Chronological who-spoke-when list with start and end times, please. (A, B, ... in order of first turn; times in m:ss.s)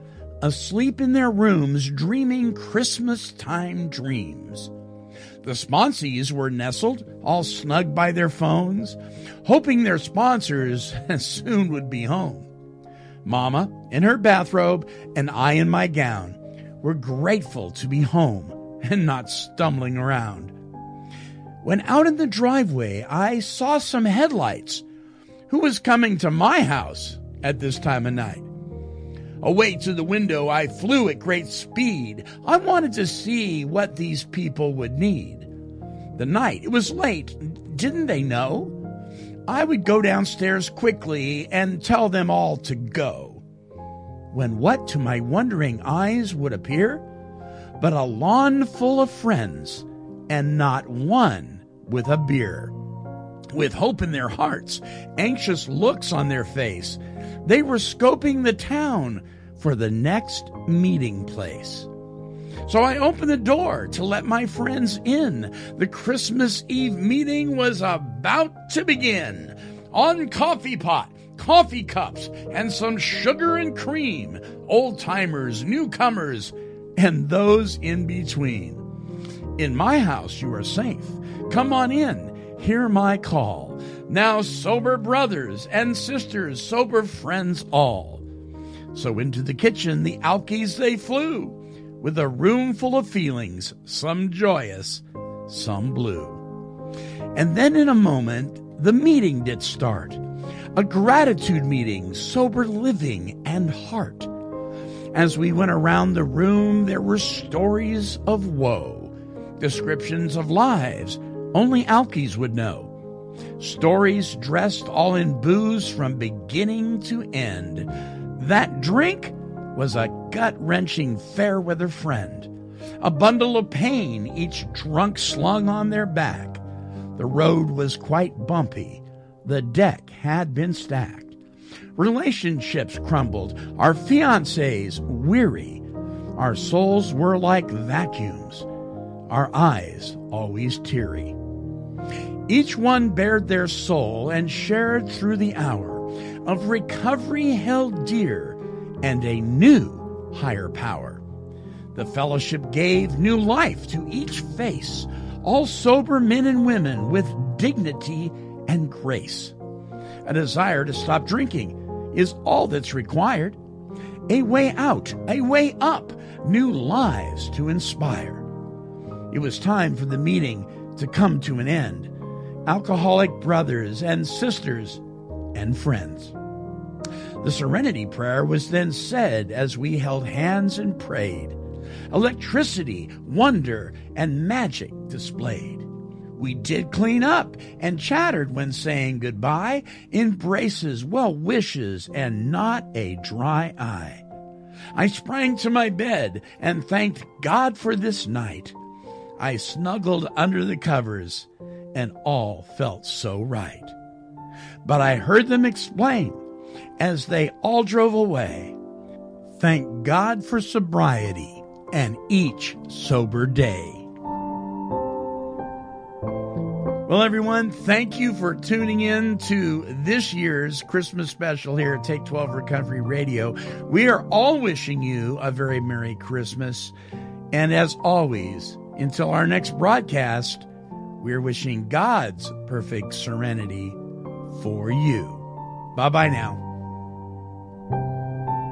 0:00.4-0:04.7 A
0:05.4-0:12.5 A
0:13.2-0:20.5 A
0:21.6-0:24.8 A
0:25.5-0:28.5 A
0:29.4-0:35.5 A
0:36.2-0:38.8 A
0:39.5-0:43.4 A
0:44.3-0:47.0 A
0:47.8-0:52.7 A
0:53.5-1:01.9 A
1:02.6-1:18.8 A
1:19.6-1:28.2 A
1:28.9-1:36.4 A
1:37.3-1:40.2 A
1:40.8-1:44.3 A
1:45.1-1:52.9 A
1:53.6-2:02.5 A
2:03.0-2:06.6 A
2:07.2-2:11.4 A
2:12.0-2:15.8 A
2:16.4-2:18.7 A
2:19.3-2:21.3 A
2:22.5-2:31.2 A
2:31.9-2:39.5 A
2:40.2-2:43.6 A
2:44.3-2:48.4 A
2:49.3-2:52.1 A
2:52.6-2:55.0 A
2:55.5-2:56.3 A
2:57.4-3:01.6 A
3:02.1-3:05.8 A
3:06.4-3:14.2 A
3:14.9-3:18.8 A
3:19.4-3:23.9 A
3:24.8-3:26.4 A
3:27.0-3:28.7 A
3:29.6-3:34.1 A
3:37.0-3:46.9 A
3:47.5-3:50.7 A
3:51.2-3:54.0 A
3:54.5-3:56.6 A